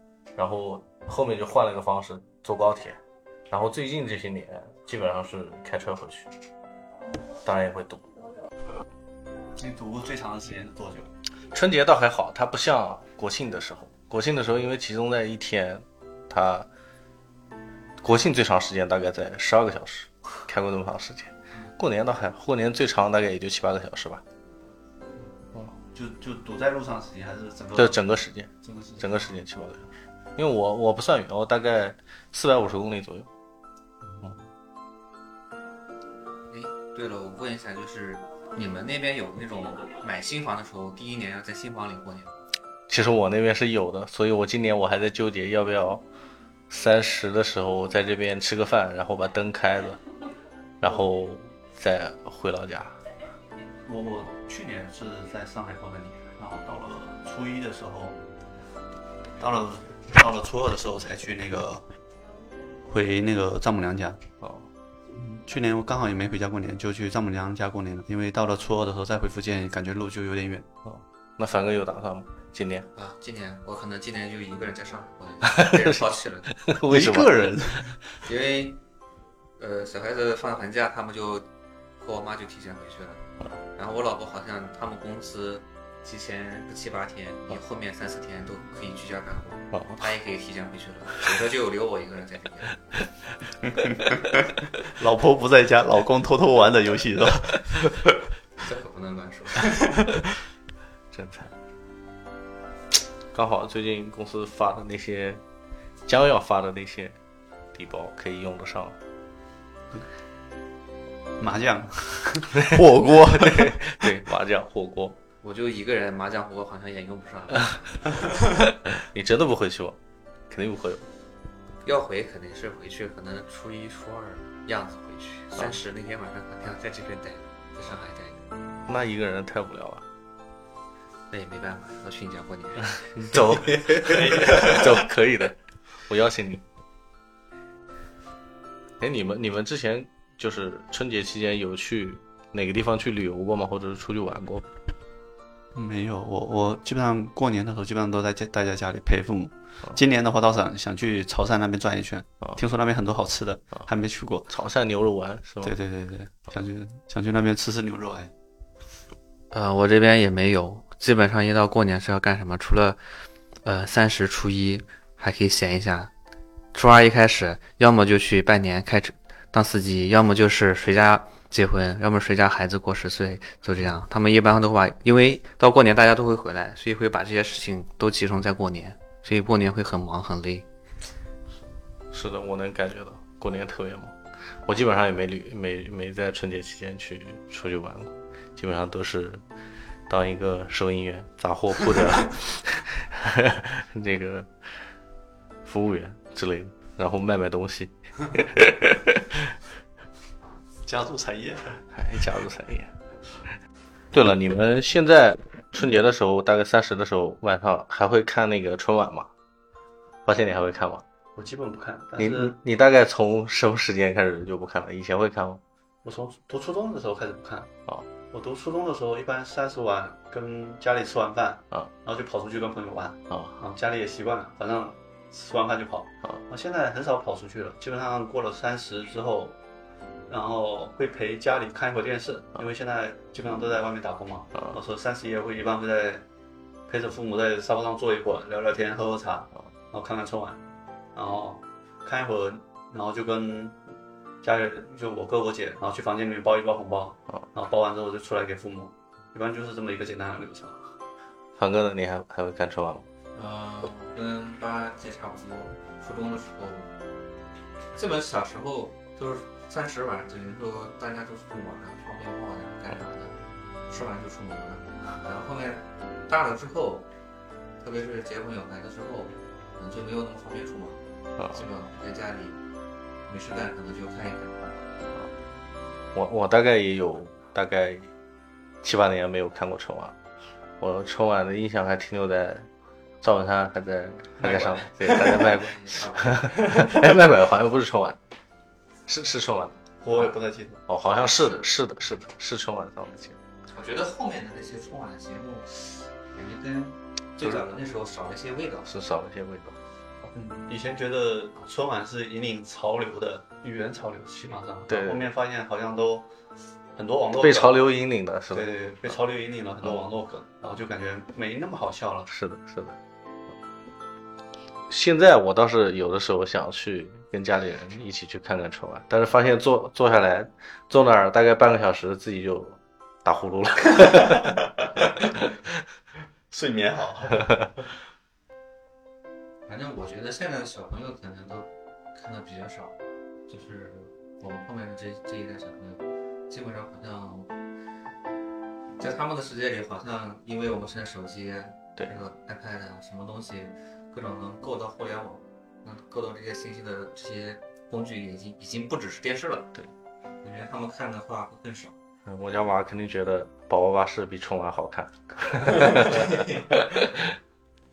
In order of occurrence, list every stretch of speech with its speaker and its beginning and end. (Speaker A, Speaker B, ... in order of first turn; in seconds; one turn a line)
Speaker A: 0.3-6.3
Speaker A: 7.4-8.0
Speaker B: 9.6-11.1
Speaker A: 11.5-16.7
Speaker A: 18.0-24.2
Speaker B: 25.9-29.1
Speaker A: 27.7-33.3
Speaker B: 34.0-34.5
Speaker C: 36.5-42.4
Speaker A: 42.9-46.0
Speaker A: 46.7-50.0
Speaker A: 50.8-53.0
Speaker B: 50.8-51.1
Speaker B: 53.9-58.2
Speaker B: 59.4-61.8
Speaker B: 62.8-64.2
Speaker A: 64.4-64.7
Speaker B: 65.1-70.7
Speaker A: 70.8-72.9
Speaker C: 72.9-76.5
Speaker A: 75.4-77.8
Speaker B: 76.8-78.0
Speaker C: 78.2-78.8
Speaker C: 79.6-81.5
Speaker C: 82.0-83.2
Speaker C: 83.8-92.8
Speaker A: 89.7-90.0
Speaker B: 93.7-98.0
Speaker C: 98.6-99.9
Speaker A: 101.1-101.5
Speaker A: 103.3-105.4
Speaker A: 106.0-107.2
Speaker A: 107.7-109.0
Speaker B: 111.4-114.2
Speaker A: 112.7-115.2
Speaker C: 115.4-117.8
Speaker A: 118.7-120.0
Speaker A: 120.5-121.1
Speaker C: 121.8-128.4
Speaker A: 128.9-130.0
Speaker C: 131.3-133.3
Speaker A: 133.2-136.6
Speaker C: 133.8-134.7
Speaker A: 139.0-144.7
Speaker B: 145.7-154.5
Speaker A: 154.5-155.7
Speaker B: 155.6-158.3
Speaker C: 159.5-163.0
Speaker C: 163.6-166.1
Speaker C: 166.7-180.7
Speaker A: 182.1-189.4
Speaker A: 190.1-194.8
Speaker A: 195.6-199.5
Speaker B: 200.8-201.8
Speaker A: 201.9-202.9
Speaker A: 204.1-209.3
Speaker A: 210.2-211.0
Speaker B: 211.3-212.6
Speaker A: 212.2-215.6
Speaker B: 216.0-217.7
Speaker B: 218.3-229.6
Speaker B: 230.3-236.2
Speaker B: 236.9-240.6
Speaker B: 241.2-243.8
Speaker B: 244.4-250.9
Speaker A: 251.6-253.1
Speaker C: 253.3-256.9
Speaker C: 257.9-267.1
Speaker C: 267.8-272.6
Speaker C: 273.2-274.8
Speaker A: 276.1-278.1
Speaker A: 278.8-280.1
Speaker A: 280.8-282.7
Speaker A: 283.2-288.2
Speaker B: 284.4-285.5
Speaker C: 285.1-286.6
Speaker B: 286.6-287.1
Speaker A: 289.1-289.8
Speaker B: 290.0-290.8
Speaker A: 290.9-293.4
Speaker C: 293.7-298.9
Speaker A: 298.8-299.8
Speaker B: 300.3-306.3
Speaker A: 304.9-305.2
Speaker B: 306.9-307.8
Speaker A: 307.4-309.1
Speaker B: 308.5-312.3
Speaker A: 312.3-313.0
Speaker A: 314.9-324.6
Speaker B: 326.5-327.5
Speaker C: 329.6-337.5
Speaker C: 339.0-349.7
Speaker C: 350.4-351.9
Speaker A: 352.2-357.3
Speaker C: 355.9-356.5